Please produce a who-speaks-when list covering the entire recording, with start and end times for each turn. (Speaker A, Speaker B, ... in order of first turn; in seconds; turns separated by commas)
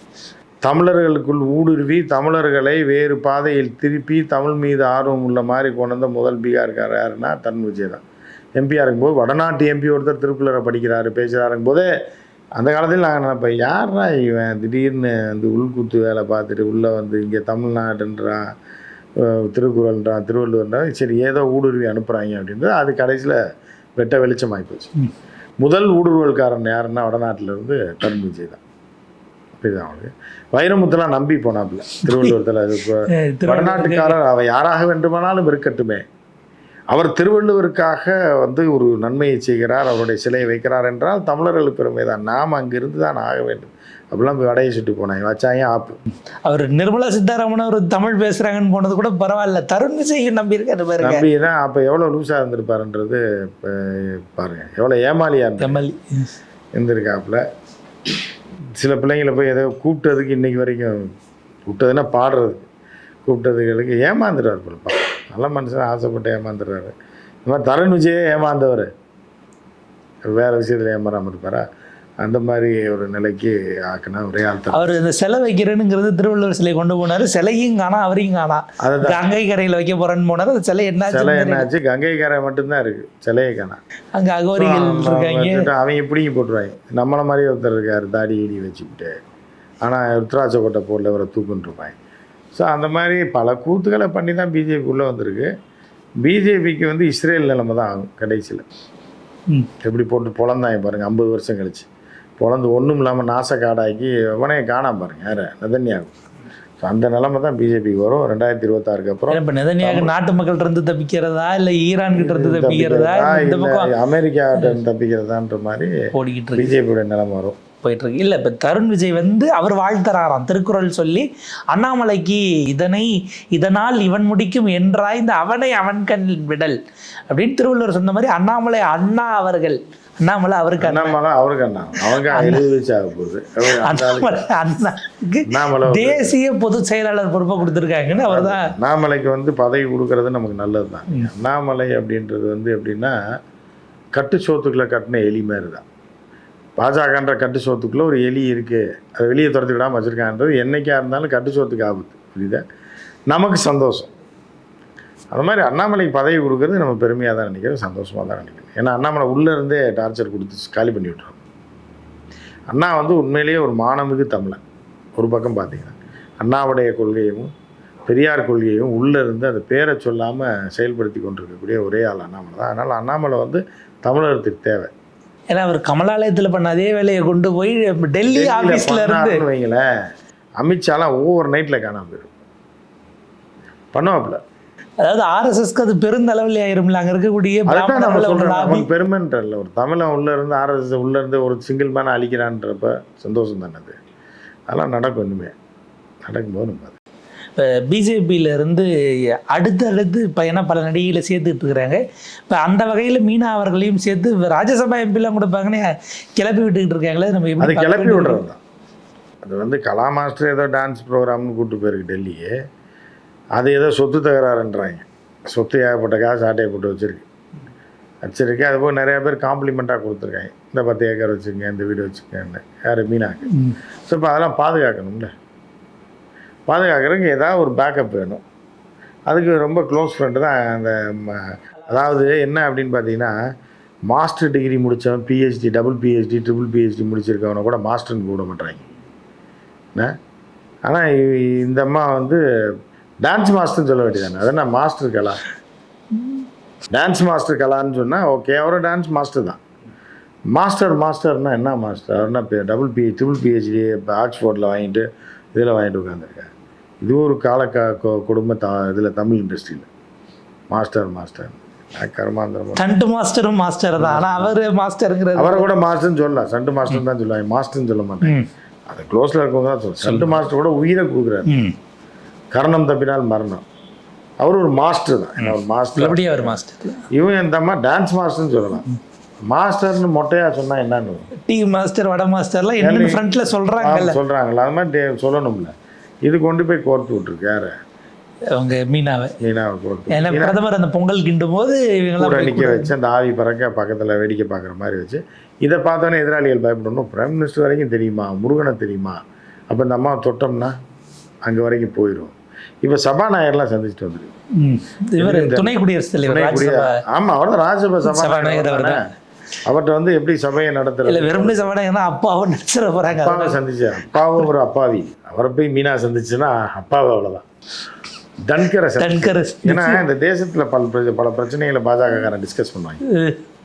Speaker A: 0.6-8.0, Speaker A: 8.6-11.9, Speaker A: 12.6-18.4, Speaker A: 19.2-23.4, Speaker A: 24.0-24.9, Speaker A: 25.6-28.6, Speaker A: 29.6-36.0, Speaker B: 32.1-32.3, Speaker B: 33.1-34.2, Speaker A: 36.9-46.0, Speaker B: 46.5-51.2, Speaker A: 51.0-55.8, Speaker B: 55.6-56.3, Speaker A: 56.8-57.4, Speaker A: 58.8-61.1, Speaker A: 61.7-62.7, Speaker A: 63.3-66.9, Speaker A: 67.5-68.9, Speaker A: 70.3-71.7, Speaker A: 72.2-74.8, Speaker B: 74.7-81.7, Speaker A: 78.8-79.2, Speaker A: 81.1-83.8, Speaker B: 84.2-85.7, Speaker A: 84.6-89.1, Speaker A: 89.8-92.0, Speaker A: 92.5-95.5, Speaker A: 96.2-98.6, Speaker A: 99.8-101.9, Speaker A: 102.4-106.2, Speaker A: 106.8-110.1, Speaker B: 109.3-113.9, Speaker A: 112.1-115.9, Speaker B: 116.1-116.7, Speaker A: 116.5-117.6, Speaker B: 117.8-126.8, Speaker B: 127.3-131.2, Speaker A: 130.8-134.5, Speaker B: 132.0-132.6, Speaker B: 133.7-138.7, Speaker A: 135.5-136.4, Speaker A: 138.1-143.2, Speaker A: 144.1-145.8, Speaker A: 146.8-152.6, Speaker A: 153.3-154.1, Speaker A: 155.3-161.4, Speaker A: 162.7-164.6, Speaker A: 165.2-167.5, Speaker A: 168.1-174.9, Speaker B: 175.5-179.4, Speaker A: 178.2-179.8, Speaker A: 180.6-182.3, Speaker A: 183.9-184.4, Speaker B: 185.0-188.9, Speaker A: 187.7-194.0, Speaker A: 194.7-195.5, Speaker A: 196.2-197.0, Speaker B: 197.6-198.9, Speaker B: 199.5-208.4, Speaker A: 207.6-208.6, Speaker A: 209.4-212.5, Speaker A: 213.6-217.3, Speaker A: 218.2-223.5, Speaker B: 223.5-223.8, Speaker A: 224.1-225.3, Speaker A: 226.7-228.4, Speaker A: 229.3-233.3, Speaker A: 234.1-238.9, Speaker A: 240.9-242.4, Speaker A: 243.2-245.4, Speaker A: 246.9-249.6, Speaker A: 250.5-256.5, Speaker A: 257.0-259.9, Speaker A: 260.7-262.9, Speaker B: 262.8-265.7, Speaker A: 264.0-264.6, Speaker A: 265.4-268.4, Speaker A: 268.9-271.5, Speaker B: 270.0-270.4, Speaker B: 271.5-271.7, Speaker A: 272.5-273.6, Speaker A: 274.4-276.6, Speaker B: 275.4-277.0, Speaker A: 277.1-278.9, Speaker A: 279.5-281.3, Speaker B: 281.5-284.2, Speaker A: 282.8-283.2, Speaker A: 283.8-285.7, Speaker A: 286.3-287.7, Speaker B: 288.5-289.4, Speaker A: 289.4-290.6, Speaker B: 290.1-292.9, Speaker A: 292.2-299.2, Speaker A: 299.7-300.7, Speaker A: 301.5-304.3, Speaker B: 304.6-307.0, Speaker A: 305.2-309.0, Speaker B: 308.0-309.1, Speaker A: 309.6-311.7, Speaker B: 311.1-313.6, Speaker A: 313.1-317.4, Speaker A: 318.4-323.0, Speaker B: 319.0-320.0, Speaker B: 323.1-323.4